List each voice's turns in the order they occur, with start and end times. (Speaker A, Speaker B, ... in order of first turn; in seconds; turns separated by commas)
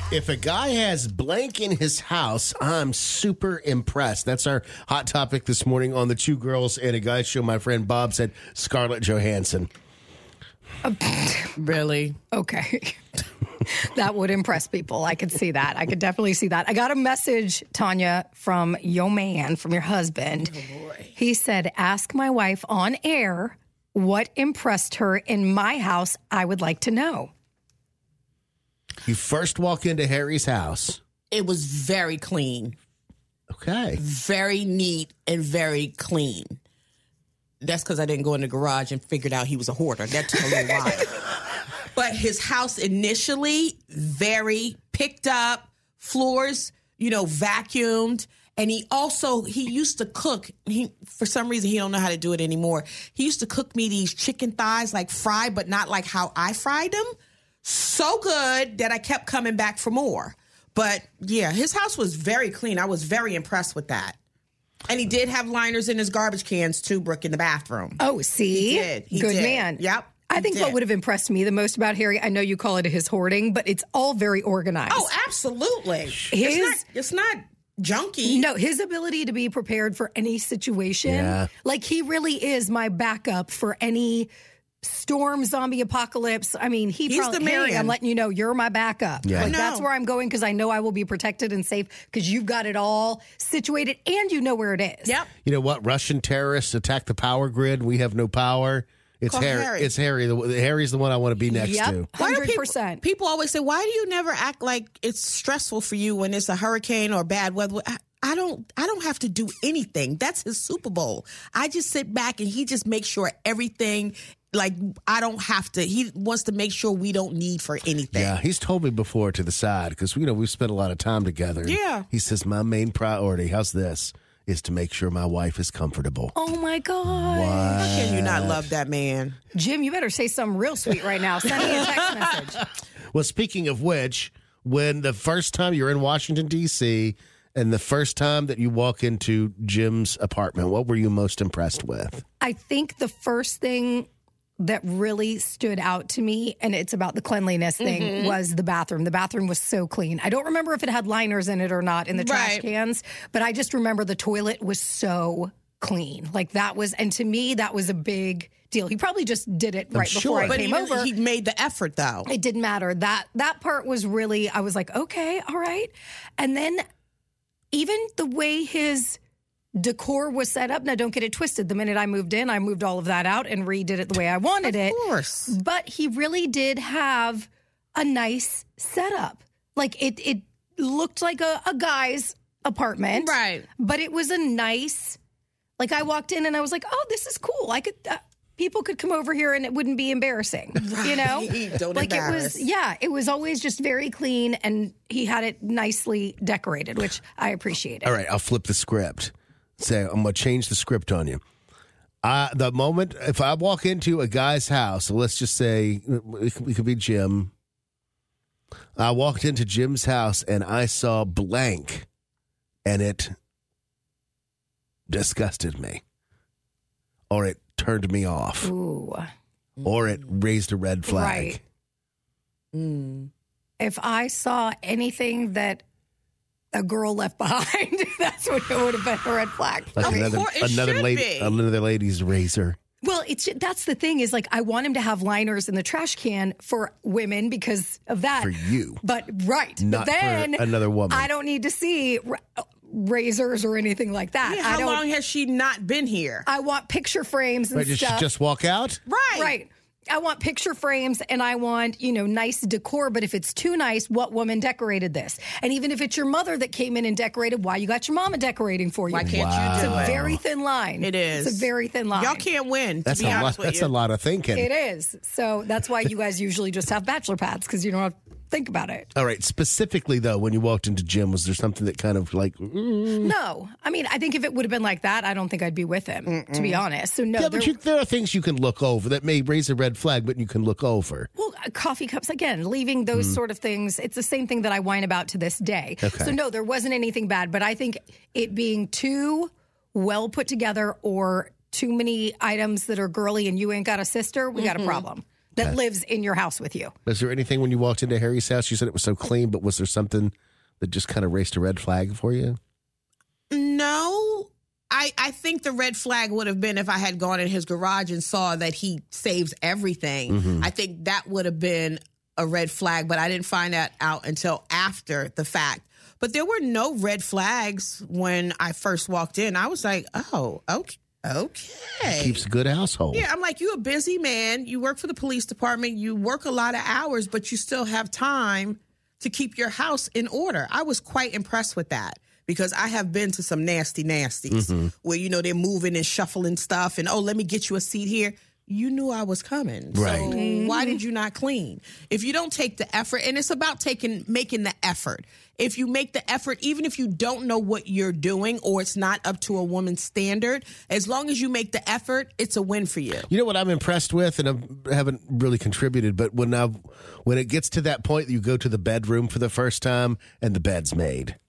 Speaker A: 0.1-9.7, Speaker B: 10.8-11.6, Speaker C: 11.6-12.2, Speaker B: 12.3-13.0, Speaker B: 13.6-20.6, Speaker C: 20.5-21.2, Speaker B: 21.2-27.3, Speaker A: 29.1-31.0, Speaker C: 31.3-32.8, Speaker A: 33.5-34.0, Speaker C: 34.0-36.6, Speaker C: 37.6-41.3, Speaker C: 41.9-64.2, Speaker C: 64.9-68.0, Speaker B: 68.0-75.1, Speaker C: 68.5-70.8, Speaker C: 74.9-78.5, Speaker B: 76.3-76.8, Speaker B: 78.2-84.3, Speaker A: 81.1-81.5, Speaker B: 84.8-95.2, Speaker C: 87.1-88.0, Speaker A: 89.2-89.5, Speaker C: 89.4-89.9, Speaker A: 95.5-102.1, Speaker C: 99.3-99.9, Speaker B: 101.5-103.0, Speaker C: 102.2-118.4, Speaker A: 118.1-126.3, Speaker C: 121.6-122.0, Speaker B: 126.3-127.9, Speaker A: 127.1-128.7, Speaker C: 127.8-129.4, Speaker B: 129.5-132.6, Speaker A: 133.1-142.2, Speaker B: 142.4-144.1, Speaker B: 144.6-161.1, Speaker C: 147.8-148.3, Speaker C: 152.1-152.7, Speaker A: 159.9-160.6, Speaker C: 160.4-162.3, Speaker B: 162.2-166.8, Speaker B: 167.7-169.2, Speaker B: 169.8-185.2, Speaker C: 174.6-175.6, Speaker C: 183.1-183.7, Speaker B: 185.8-198.1, Speaker C: 190.8-192.7, Speaker A: 198.0-201.4, Speaker A: 202.2-207.5, Speaker A: 209.0-212.1, Speaker A: 212.8-213.3, Speaker A: 215.1-216.0, Speaker A: 217.3-218.7, Speaker B: 218.6-219.3, Speaker C: 219.8-220.1, Speaker A: 219.8-221.6, Speaker B: 221.1-221.6, Speaker C: 222.7-223.3, Speaker B: 223.8-225.8, Speaker B: 226.7-230.4, Speaker A: 229.9-232.8, Speaker C: 230.0-231.6, Speaker B: 233.0-245.0, Speaker A: 238.4-239.0, Speaker A: 239.8-241.3, Speaker C: 244.4-246.4, Speaker B: 246.4-248.3, Speaker A: 247.7-249.0, Speaker C: 249.1-249.5, Speaker B: 249.3-262.4, Speaker C: 259.1-260.2, Speaker A: 259.2-260.4, Speaker C: 261.0-263.9, Speaker A: 263.1-264.7, Speaker B: 264.5-269.1, Speaker A: 269.1-273.3, Speaker B: 273.2-277.7, Speaker C: 276.2-276.8, Speaker A: 277.4-281.3, Speaker B: 281.4-296.9, Speaker A: 283.1-283.4, Speaker A: 286.0-286.3, Speaker C: 294.6-295.0, Speaker A: 297.1-302.6, Speaker C: 303.5-322.4, Speaker A: 310.3-310.7, Speaker A: 322.0-323.2, Speaker C: 323.1-353.3, Speaker A: 334.5-334.9, Speaker A: 339.9-340.3, Speaker B: 340.2-341.0, Speaker A: 353.3-361.4